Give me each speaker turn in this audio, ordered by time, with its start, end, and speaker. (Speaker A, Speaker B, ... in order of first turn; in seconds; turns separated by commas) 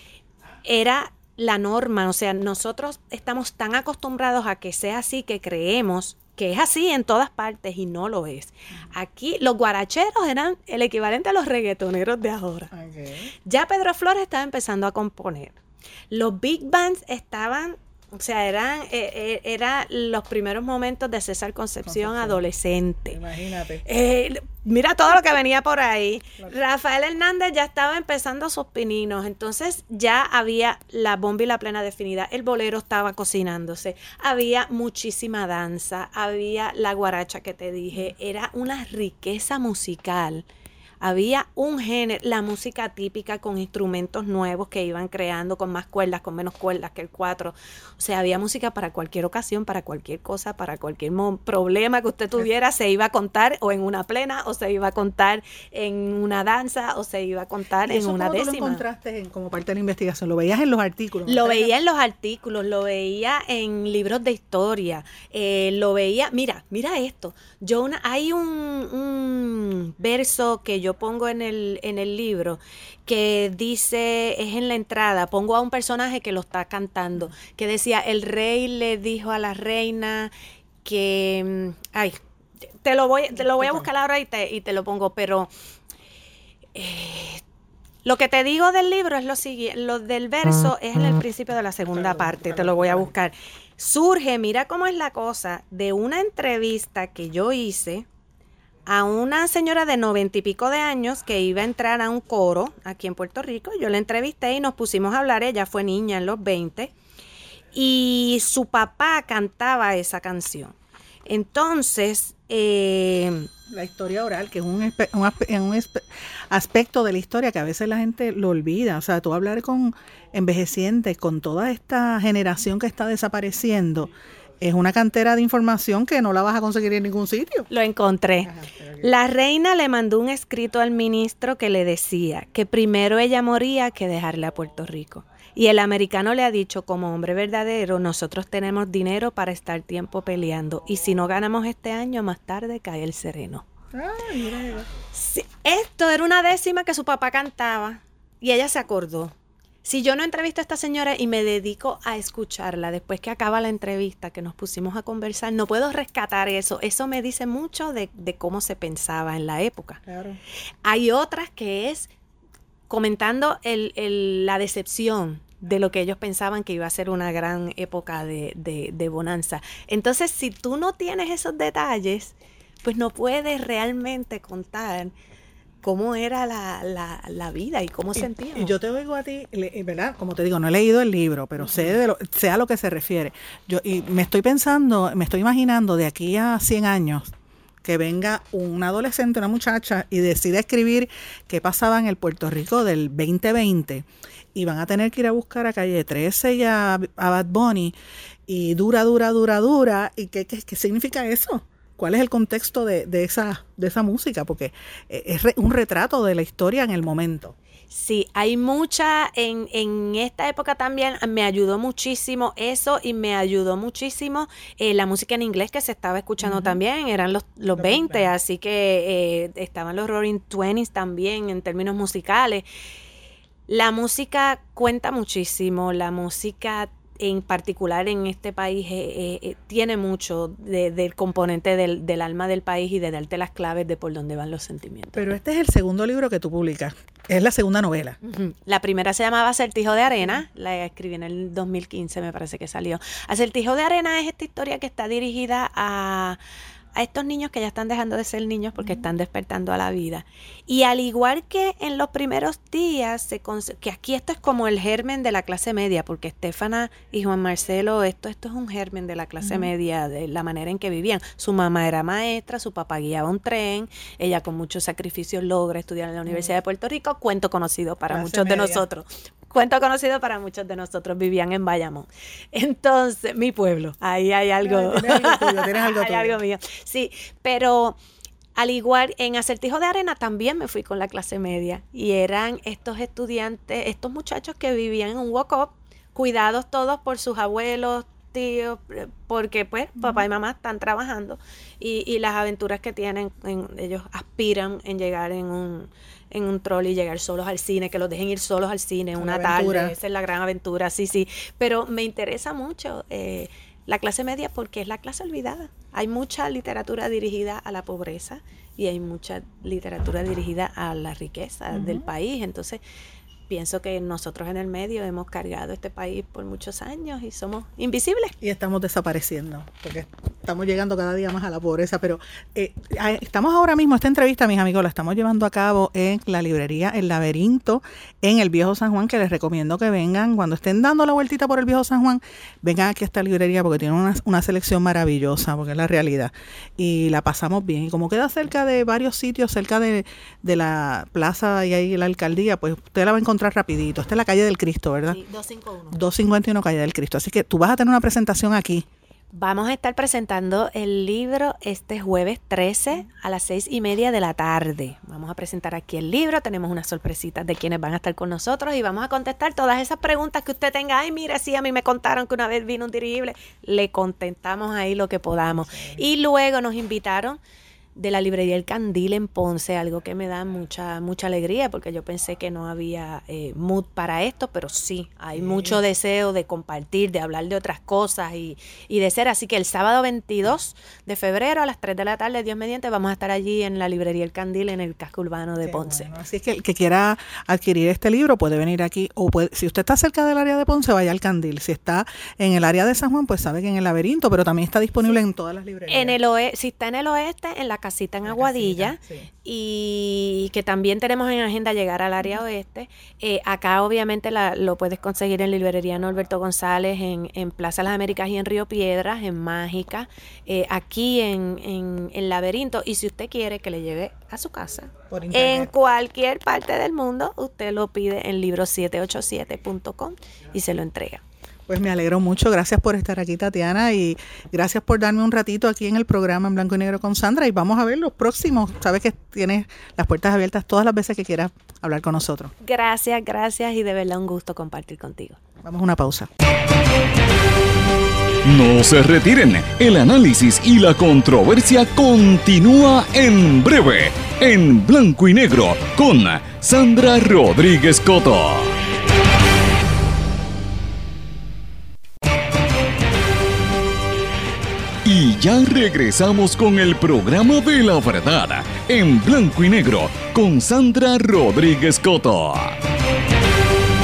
Speaker A: 0.6-12.7, Speaker B: 12.7-13.3, Speaker A: 13.4-15.6, Speaker A: 16.1-23.2, Speaker B: 21.8-22.4, Speaker B: 23.1-23.8, Speaker A: 23.8-40.5, Speaker A: 41.0-58.8, Speaker B: 57.9-61.7, Speaker A: 61.3-80.3, Speaker A: 80.8-82.2, Speaker A: 82.8-85.5, Speaker B: 83.6-83.9, Speaker A: 86.8-87.4, Speaker A: 88.0-98.1, Speaker B: 91.9-93.1, Speaker A: 98.9-106.9, Speaker A: 107.7-110.8, Speaker A: 111.3-113.5, Speaker B: 113.7-127.7, Speaker A: 127.7-143.7, Speaker B: 128.4-129.1, Speaker B: 143.9-144.9, Speaker A: 145.1-160.0, Speaker B: 160.1-160.4, Speaker A: 160.8-162.1, Speaker A: 162.9-175.2, Speaker A: 175.8-178.8, Speaker B: 178.2-187.3, Speaker B: 187.8-198.0, Speaker B: 198.5-207.6, Speaker A: 207.9-222.7, Speaker B: 216.4-216.8, Speaker B: 217.8-218.3, Speaker A: 223.7-235.3, Speaker B: 235.2-238.2, Speaker A: 238.2-246.4, Speaker A: 246.9-278.0, Speaker B: 259.4-259.7, Speaker B: 266.3-266.5, Speaker B: 268.1-268.9, Speaker B: 274.6-276.4, Speaker A: 278.6-312.8, Speaker B: 299.2-299.9, Speaker B: 311.7-312.1, Speaker A: 313.5-318.3, Speaker B: 318.4-345.2, Speaker A: 345.1-346.0, Speaker B: 345.9-348.9, Speaker A: 349.3-367.4, Speaker B: 365.5-366.0, Speaker A: 368.0-386.1, Speaker B: 375.3-375.8, Speaker B: 385.6-396.2, Speaker A: 395.9-421.2, Speaker B: 398.2-399.3, Speaker B: 415.1-415.7, Speaker B: 421.7-432.5, Speaker A: 432.6-435.4, Speaker B: 435.6-436.3, Speaker C: 438.4-448.8, Speaker C: 455.1-462.8